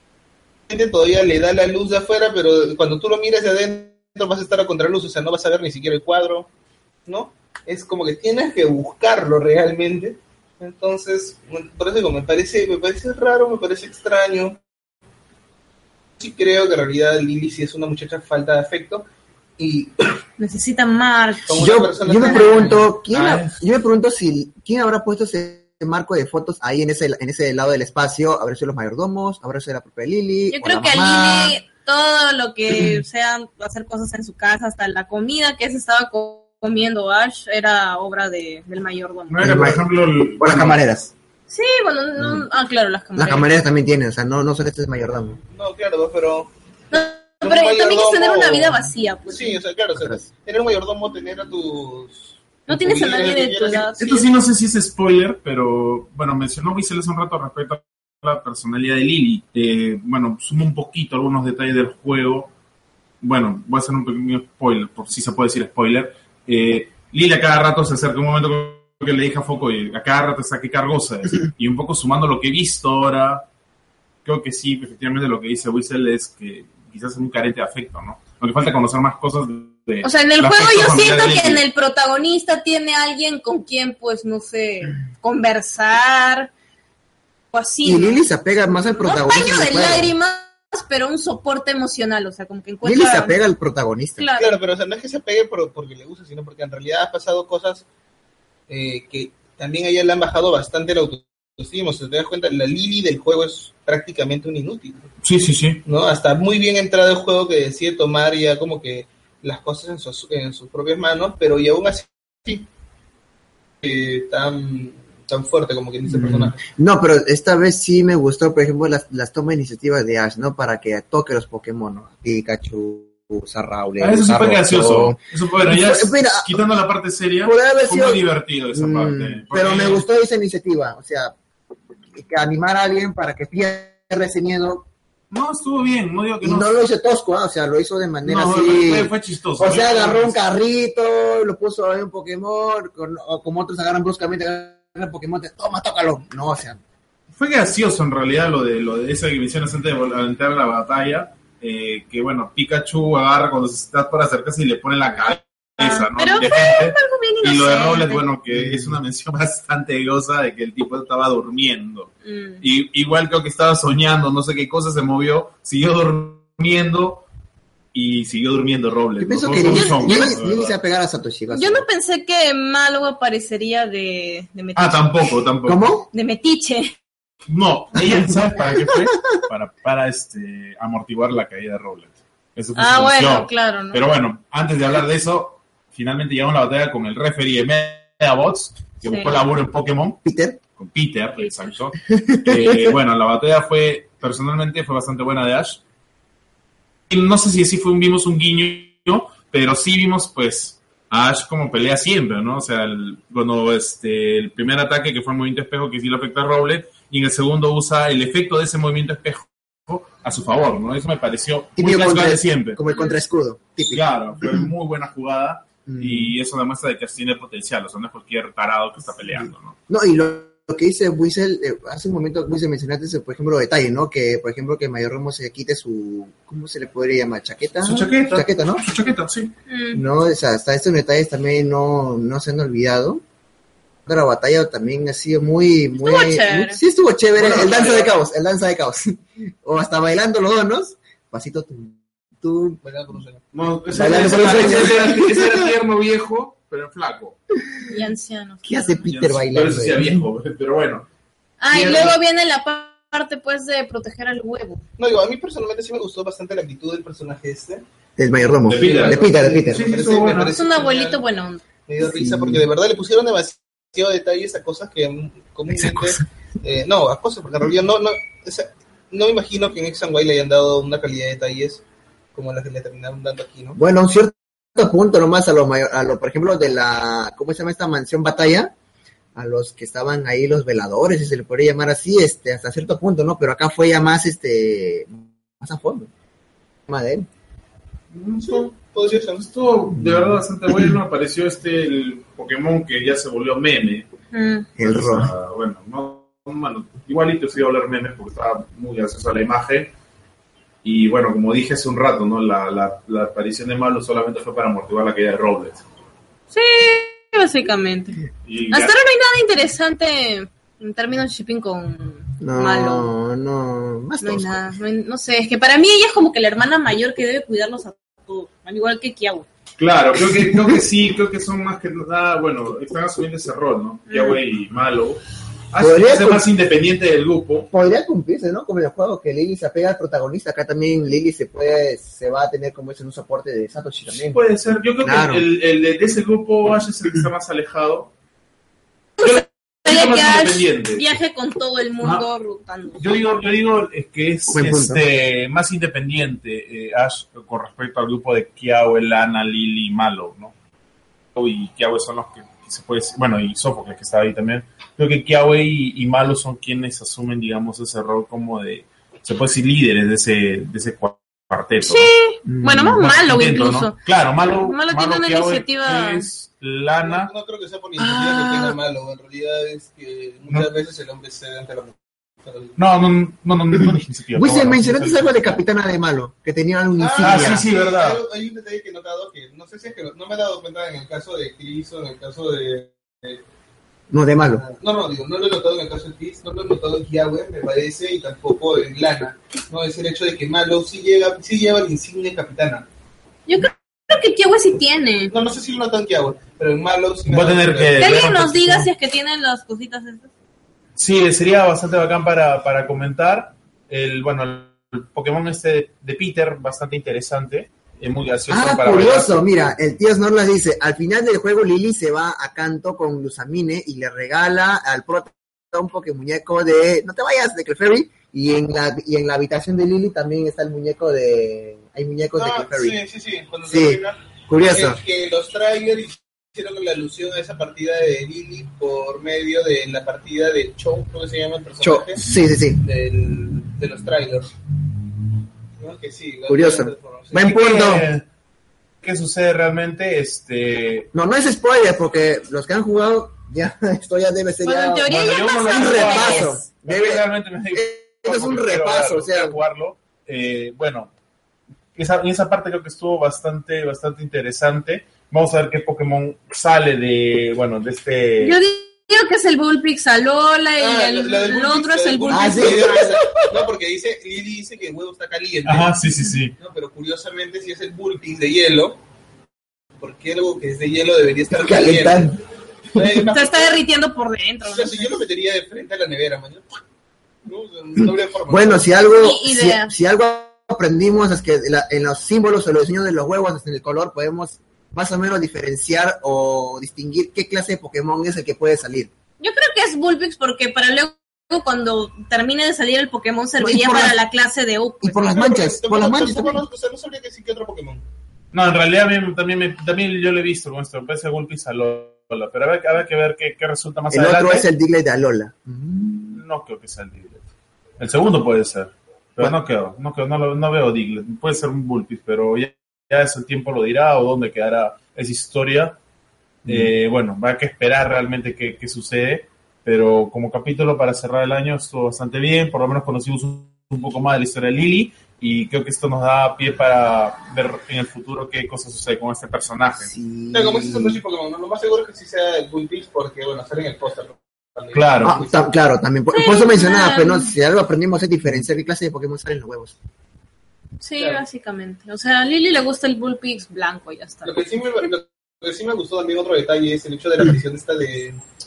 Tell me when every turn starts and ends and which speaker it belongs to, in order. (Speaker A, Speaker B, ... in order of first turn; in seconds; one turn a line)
Speaker A: 0.7-6.5
Speaker A: 7.0-14.6
Speaker A: 16.2-19.0
Speaker A: 19.6-20.2
Speaker B: 20.4-22.6
Speaker A: 21.5-22.9
Speaker C: 21.5-31.6
Speaker D: 22.7-23.6
Speaker B: 30.5-39.4
Speaker D: 39.3-40.8
Speaker C: 39.4-39.8
Speaker C: 40.4-41.1
Speaker B: 41.5-43.5
Speaker C: 42.2-42.4
Speaker C: 43.1-45.4
Speaker A: 45.5-46.5
Speaker B: 46.9-49.6
Speaker A: 47.4-54.3
Speaker C: 49.9-50.2
Speaker B: 52.7-54.2
Speaker D: 54.0-62.5
Speaker D: 63.2-73.5
Speaker D: 74.2-81.6
Speaker B: 80.0-86.5
Speaker B: 87.5-88.2
Speaker C: 87.8-90.1
Speaker B: 89.0-93.4
Speaker C: 92.8-94.3
Speaker B: 94.2-94.5
Speaker A: 94.4-97.8
Speaker A: 98.7-105.1
Speaker D: 105.2-105.8
Speaker A: 105.8-112.7
Speaker A: 113.8-116.6
Speaker C: 116.1-126.6
Speaker D: 124.0-130.0
Speaker C: 127.4-128.2
Speaker C: 128.7-131.3
Speaker C: 132.1-134.9
Speaker D: 135.3-136.7
Speaker C: 136.4-146.8
Speaker D: 138.2-140.4
Speaker D: 147.3-167.2
Speaker B: 155.8-158.2
Speaker C: 158.5-159.0
Speaker B: 162.2-162.6
Speaker D: 167.9-170.8
Speaker C: 169.2-171.8
Speaker B: 169.6-170.4
Speaker B: 171.5-175.3
Speaker D: 174.7-175.9
Speaker C: 175.7-176.1
Speaker B: 176.1-176.9
Speaker D: 177.5-190.2
Speaker B: 182.8-184.0
Speaker B: 189.0-189.3
Speaker C: 190.2-190.6
Speaker D: 190.8-195.8
Speaker C: 192.1-192.9
Speaker D: 197.1-212.8
Speaker C: 211.8-214.7
Speaker B: 212.9-213.1
Speaker D: 213.9-219.8
Speaker C: 215.9-216.3
Speaker C: 219.9-228.8
Speaker D: 227.8-229.5
Speaker B: 229.7-230.0
Speaker C: 229.9-233.2
Speaker C: 234.1-242.8
Speaker B: 236.0-236.8
Speaker D: 237.4-238.1
Speaker A: 242.8-243.4
Speaker D: 243.5-247.4
Speaker C: 243.9-245.7
Speaker B: 247.9-249.0
Speaker C: 248.6-250.2
Speaker D: 249.1-251.1
Speaker B: 251.6-254.8
Speaker D: 251.7-252.1
Speaker A: 255.0-257.8
Speaker C: 258.2-259.9
Speaker D: 258.7-260.6
Speaker A: 258.8-261.2
Speaker B: 260.5-261.6
Speaker A: 261.9-271.8
Speaker C: 262.0-262.6
Speaker C: 265.8-266.1
Speaker A: 272.3-273.8
Speaker C: 273.8-278.7
Speaker C: 279.4-286.1
Speaker C: 286.9-287.3
Speaker D: 288.1-288.8
Speaker A: 288.4-289.4
Speaker D: 289.4-294.1
Speaker C: 290.0-290.9
Speaker B: 294.3-294.7
Speaker C: 294.8-295.3
Speaker D: 294.8-299.9
Speaker D: 300.8-305.8
Speaker B: 306.5-313.1
Speaker D: 308.4-308.9
Speaker C: 312.4-314.6
Speaker B: 314.2-319.5
Speaker D: 319.8-325.2
Speaker B: 324.1-324.4
Speaker D: 325.7-327.7
Speaker C: 325.8-326.4
Speaker C: 327.7-334.4
Speaker D: 334.1-338.1
Speaker C: 335.0-335.4
Speaker D: 339.2-341.1
Speaker B: 339.2-343.0
Speaker D: 342.0-342.3
Speaker D: 343.0-350.5
Speaker C: 344.5-345.0
Speaker D: 351.3-362.1
Speaker B: 361.8-363.9
Speaker C: 362.5-362.8
Speaker D: 362.8-367.3
Speaker B: 364.6-366.3
Speaker A: 367.0-372.8
Speaker D: 372.8-375.4
Speaker C: 374.3-377.7
Speaker A: 377.0-383.4
Speaker D: 377.2-378.2
Speaker C: 384.1-384.6
Speaker A: 384.5-392.9
Speaker B: 393.5-395.3
Speaker A: 395.3-398.1
Speaker D: 397.3-398.9
Speaker B: 398.0-400.3
Speaker D: 401.0-409.7
Speaker C: 408.5-423.0
Speaker A: 422.4-432.2
Speaker C: 423.6-425.0
Speaker C: 431.8-432.8
Speaker A: 432.8-434.5
Speaker A: 435.8-437.5
Speaker C: 436.5-438.1
Speaker D: 437.4-438.2
Speaker D: 439.0-441.1
Speaker C: 441.1-449.6
Speaker B: 444.6-446.6
Speaker D: 445.1-451.1
Speaker D: 451.9-458.6
Speaker B: 458.4-463.1
Speaker A: 460.8-465.9
Speaker C: 462.3-463.6
Speaker D: 465.6-466.6
Speaker A: 466.6-469.0
Speaker A: 470.0-472.3
Speaker C: 471.5-472.4
Speaker A: 472.9-473.8
Speaker B: 473.3-475.2
Speaker A: 474.6-476.7
Speaker A: 477.4-478.9
Speaker C: 478.5-489.1
Speaker B: 479.1-479.9
Speaker B: 489.4-495.4
Speaker C: 493.6-494.2
Speaker C: 495.0-496.6
Speaker A: 495.2-498.0
Speaker D: 498.5-504.6
Speaker C: 504.1-506.4
Speaker D: 506.3-507.5
Speaker D: 508.0-516.0
Speaker D: 516.6-530.1
Speaker C: 530.0-531.2
Speaker A: 530.5-535.5
Speaker D: 534.9-535.4
Speaker C: 535.2-540.0
Speaker B: 536.3-537.5
Speaker B: 541.0-545.1
Speaker A: 541.2-541.4
Speaker A: 544.4-548.4